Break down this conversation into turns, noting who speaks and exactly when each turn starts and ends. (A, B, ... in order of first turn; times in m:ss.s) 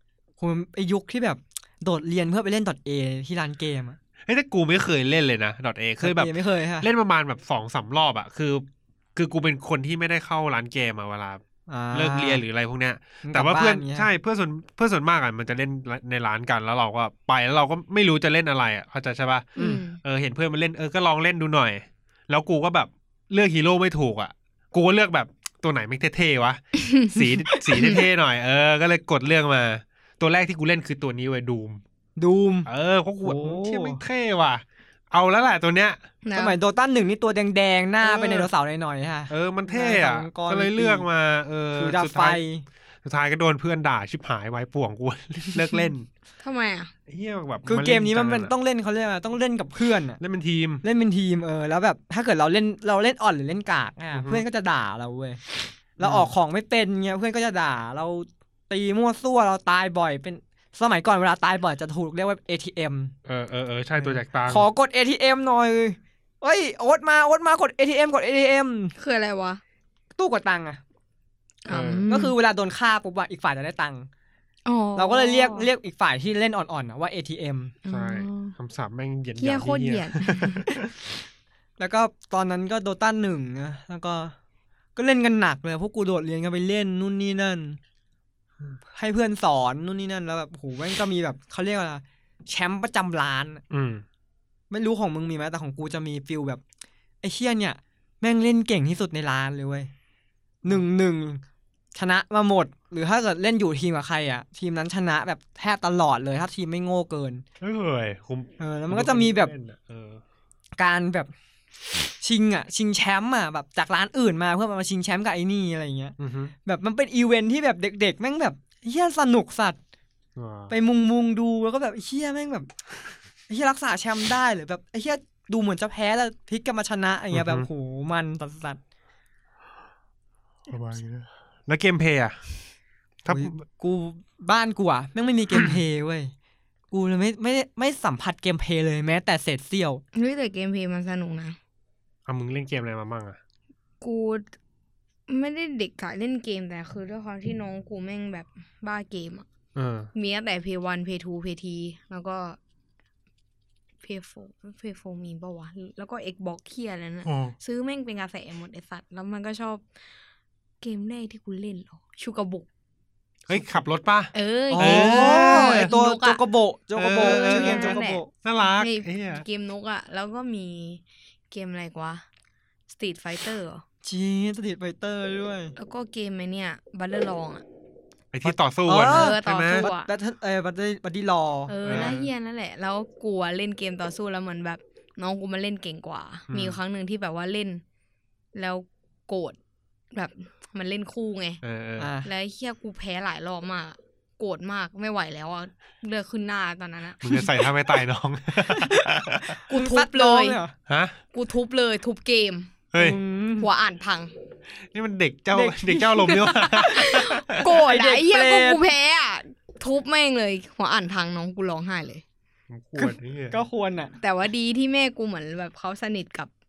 0:00.4-0:04.0 A
0:04.2-0:31.8 B
0:06.0-0:06.9 A
0:11.7-0:12.4 A
0:13.2-0:14.1 A
0:19.6-0:20.0 C
0:19.6-0:19.8 A
0:26.8-0:27.2 C
0:27.7-0:28.0 C
0:32.2-0:32.7 A
0:32.6-0:36.0 B
0:33.2-0:34.0 A
0:36.2-0:36.6 C
0:36.3-0:41.1 A
0:38.0-0:38.5 B
0:39.3-0:42.4 B
0:41.7-0:42.6 A
0:43.0-0:46.1 B
0:46.4-0:46.9 C
0:47.1-0:48.5 B
0:47.6-0:50.2 A
0:50.2-0:50.8 B
0:50.8-0:55.4 A
0:54.1-0:54.4 B
0:56.0-1:03.1 A
0:56.0-0:56.3 B
1:03.2-1:04.7 B
1:04.0-1:08.9 A
1:09.0-1:09.6 C
1:10.2-1:10.8 A
1:11.6-1:12.3 C
1:11.7-1:12.0 B
1:12.1-1:14.1 A
1:14.6-1:15.7 C
1:15.0-1:17.8 A
1:17.8-1:18.5 C
1:17.9-1:20.9 B
1:19.4-1:20.7 C
1:21.8-1:24.3 A
1:25.0-1:27.8 A
1:28.9-1:33.6 A
1:33.7-1:34.0 B
1:34.7-1:36.6 A
1:37.2-1:39.9 A
1:40.6-1:41.4 A
1:41.9-1:47.4 A
1:47.6-1:50.2 B
1:48.6-1:49.5 A
1:50.8-1:51.3 A
1:52.2-1:59.8 A
1:56.2-1:56.5 B
2:00.4-2:00.7 B
2:00.7-2:02.7 A
2:03.5-2:08.8 A
2:07.3-2:07.7 B
2:10.7-2:12.4 B
2:13.2-2:13.6 B
2:13.3-2:16.3 A
2:15.5-2:15.8 B
2:16.9-2:20.0 A
2:20.1-2:21.6 C
2:22.3-2:23.4 B
2:24.0-2:24.4 C
2:25.3-2:29.4 C
2:29.8-2:30.1 B
2:30.1-2:32.6 C
2:34.0-2:39.8 C
2:37.2-2:37.5 B
2:40.8-2:42.7 C
2:43.5-2:45.9 B
2:44.3-2:46.4 C
2:44.7-2:48.3 A
2:47.0-2:49.4 B
2:47.2-2:52.2 C
2:52.9-2:53.8 C
2:54.0-2:55.7 A
2:55.8-2:57.6 C
2:58.3-2:59.9 B
2:58.4-3:02.1 A
2:59.0-3:00.1 C
3:01.7-3:07.8 C
3:01.8-3:02.3 B
3:06.5-3:06.8 B
3:08.5-3:09.6 C
3:10.1-3:11.6 C
3:11.6-3:12.1 B
3:12.0-3:12.3 A
3:12.2-3:17.5 C
3:17.2-3:19.6 B
3:18.6-3:20.7 A
3:19.7-3:20.6 C
3:20.9-3:21.2 B
3:21.3-3:22.7 C
3:22.9-3:23.2 B
3:23.0-3:23.7 A
3:23.6-3:24.3 C
3:24.8-3:27.8 B
3:25.5-3:28.8 A
3:26.8-3:32.2 C
3:32.7-3:33.6 B
3:33.0-3:34.1 A
3:34.2-3:36.5 C